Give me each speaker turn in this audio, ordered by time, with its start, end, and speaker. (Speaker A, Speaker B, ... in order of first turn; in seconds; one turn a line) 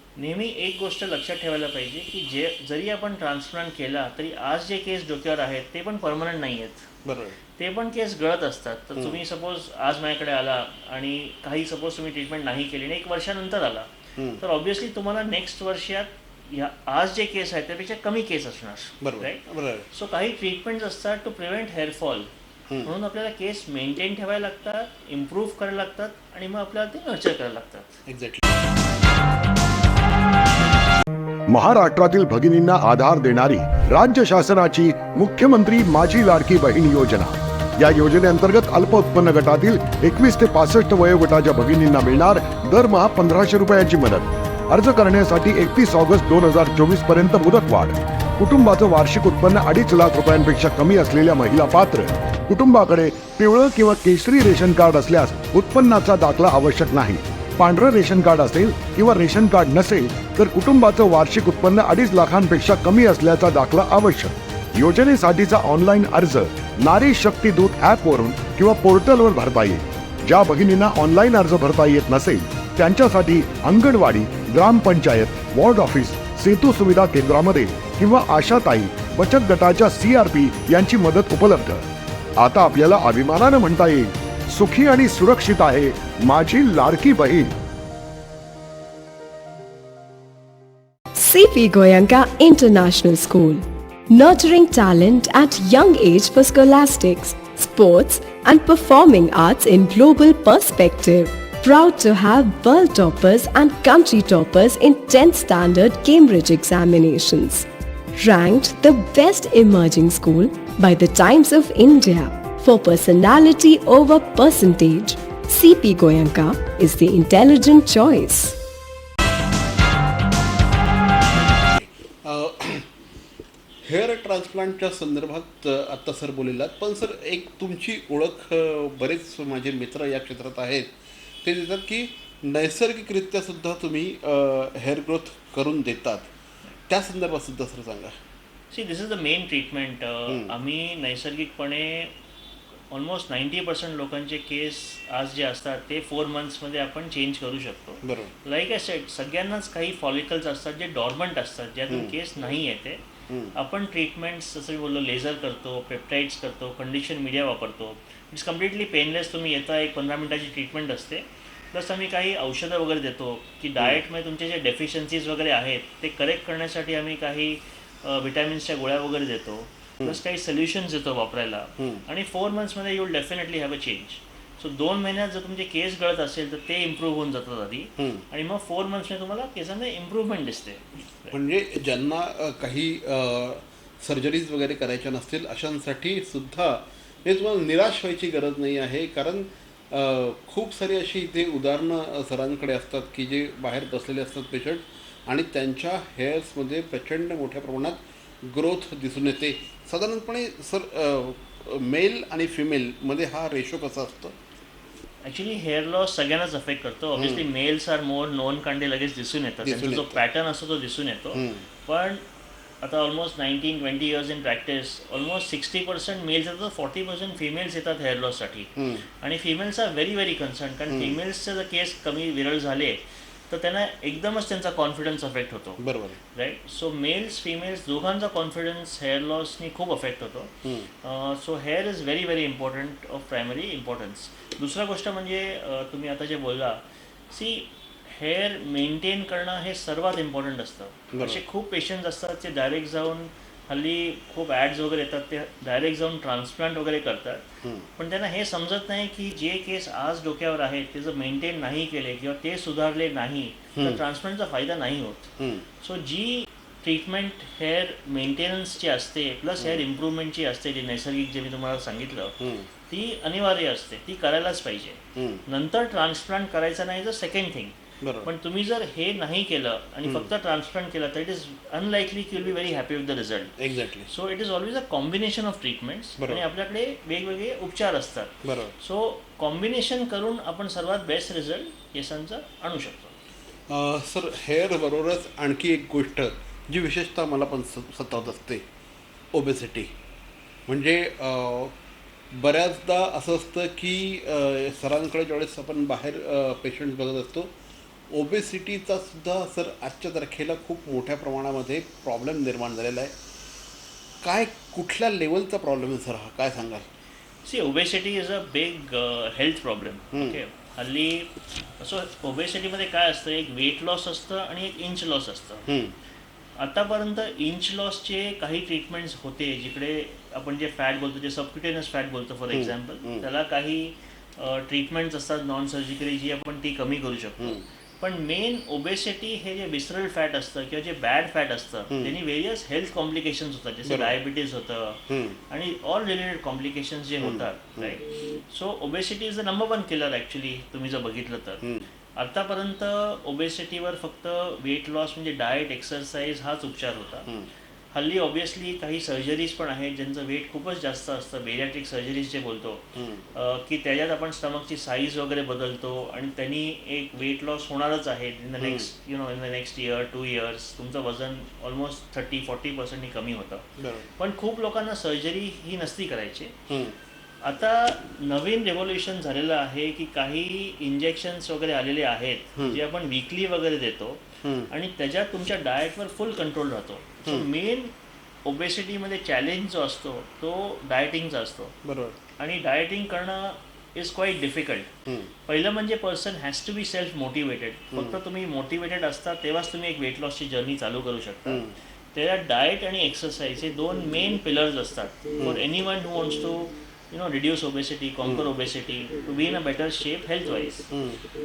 Speaker A: 0.2-6.9
Speaker B: 7.0-7.4
Speaker A: 7.6-22.3
Speaker B: 14.2-14.4
Speaker B: 19.0-19.9
Speaker A: 22.8-28.0
Speaker B: 28.1-28.4
Speaker C: 31.5-81.8
Speaker C: 82.4-87.5
Speaker D: 91.2-118.6
Speaker B: 121.6-122.9
Speaker B: 123.8-130.9
Speaker B: 131.4-136.3
Speaker B: 136.9-138.2
Speaker A: 138.7-142.1
Speaker B: 140.3-140.5
Speaker A: 142.9-153.0
Speaker B: 148.0-148.3
Speaker B: 151.9-152.2
Speaker B: 153.3-153.5
Speaker A: 153.5-181.4
Speaker B: 178.0-178.2
Speaker B: 181.3-204.3
Speaker A: 205.2-212.2
Speaker B: 207.2-207.5
Speaker B: 209.6-210.2
Speaker B: 211.3-211.7
Speaker A: 212.8-225.8
Speaker B: 218.8-219.1
Speaker B: 220.9-221.2
Speaker B: 225.8-226.2
Speaker A: 226.3-247.5
Speaker B: 230.6-230.9
Speaker B: 241.1-241.4
Speaker B: 247.6-247.9
Speaker A: 248.0-262.4
Speaker B: 253.8-254.0
Speaker B: 255.4-255.7
Speaker B: 259.6-259.9
Speaker B: 262.4-262.7
Speaker A: 262.9-273.5
Speaker B: 265.2-265.4
Speaker B: 268.0-268.3
Speaker B: 273.6-274.1
Speaker A: 274.1-283.2
Speaker B: 278.4-278.8
Speaker B: 283.7-288.6
Speaker B: 289.3-289.9
Speaker B: 290.7-291.7
Speaker B: 292.3-297.5
Speaker B: 298.1-303.1
Speaker B: 304.2-306.9
Speaker A: 307.4-315.6
Speaker B: 310.1-310.4
Speaker B: 315.7-316.0
Speaker A: 316.6-341.6
Speaker B: 322.5-323.3
Speaker B: 333.9-334.2
Speaker B: 335.1-335.4
Speaker B: 337.2-338.0
Speaker B: 341.6-341.9
Speaker A: 342.2-347.3
Speaker A: 347.9-366.6
Speaker B: 353.0-353.3
Speaker B: 358.6-358.9
Speaker B: 363.8-364.1
Speaker B: 366.7-367.0
Speaker A: 367.4-377.9
Speaker B: 374.4-374.7
Speaker A: 378.4-381.8
Speaker B: 381.8-382.2
Speaker A: 382.4-384.9
Speaker B: 385.1-385.3
Speaker A: 385.5-400.9
Speaker B: 391.5-391.8
Speaker B: 395.4-395.6
Speaker B: 398.2-398.5
Speaker B: 400.9-401.2